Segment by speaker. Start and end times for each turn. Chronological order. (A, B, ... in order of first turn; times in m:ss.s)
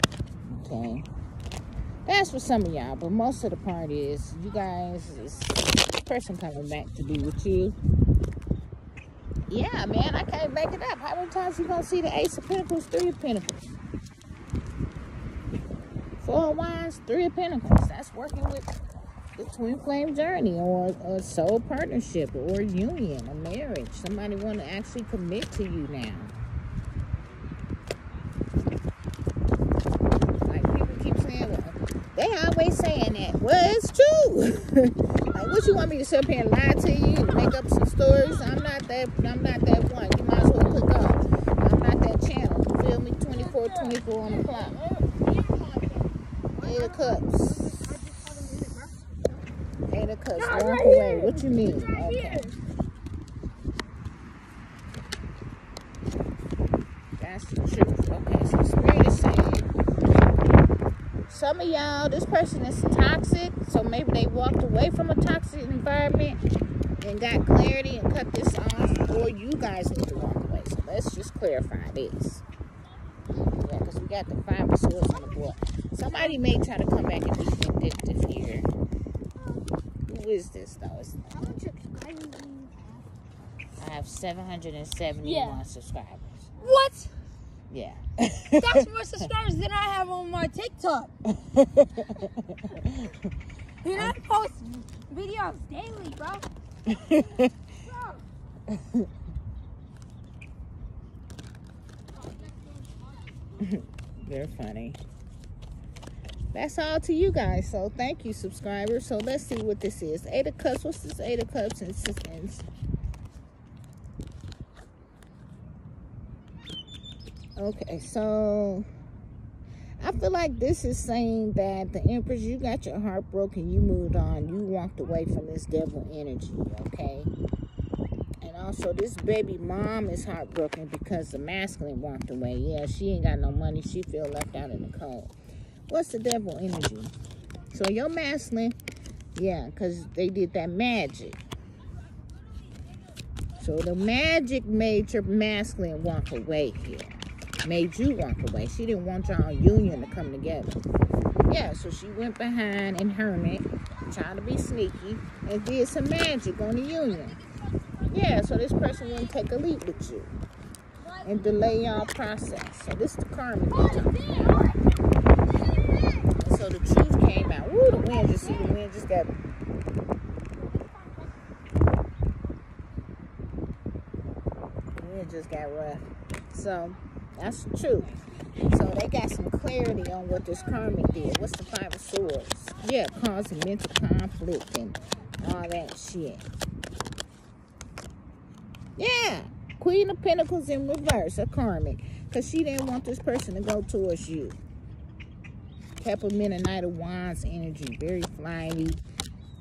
0:00.5-0:01.0 A
0:02.0-0:07.8 A
0:09.5-0:13.7 A
0:16.2-0:18.7 A
0:19.4-0:26.3 A
0:30.4-0:44.8 A
0:46.6-0:48.7 A
0:49.9-0:52.5 A
0:50.8-0:51.1 B
0:57.2-0:59.7 A
1:01.3-1:06.4 A
1:07.0-1:12.4 A
1:13.5-1:18.7 A
1:20.1-1:21.6 A
1:21.5-1:22.9 B
1:23.8-1:26.5 A
1:25.2-1:25.6 B
1:26.6-1:27.1 B
1:27.7-1:28.8 A
1:28.5-1:31.1 B
1:31.4-1:33.2 A
1:33.8-1:36.5 B
1:36.9-1:37.5 A
1:37.8-1:38.2 B
1:38.7-1:39.0 A
1:43.6-1:45.0 A
1:46.5-1:52.6 A
1:57.6-1:58.8 A
2:00.0-2:07.3 A
2:08.4-2:15.3 A
2:15.9-2:17.1 A
2:17.7-2:18.8 A
2:19.3-2:21.4 A
2:23.6-2:30.8 A
2:31.5-2:37.4 A
2:38.0-2:40.3 A
2:41.2-2:44.2 A
2:44.2-2:44.6 B
2:46.3-2:49.3 A
2:55.0-3:06.5 A
3:09.0-3:14.6 A
3:16.0-3:19.0 A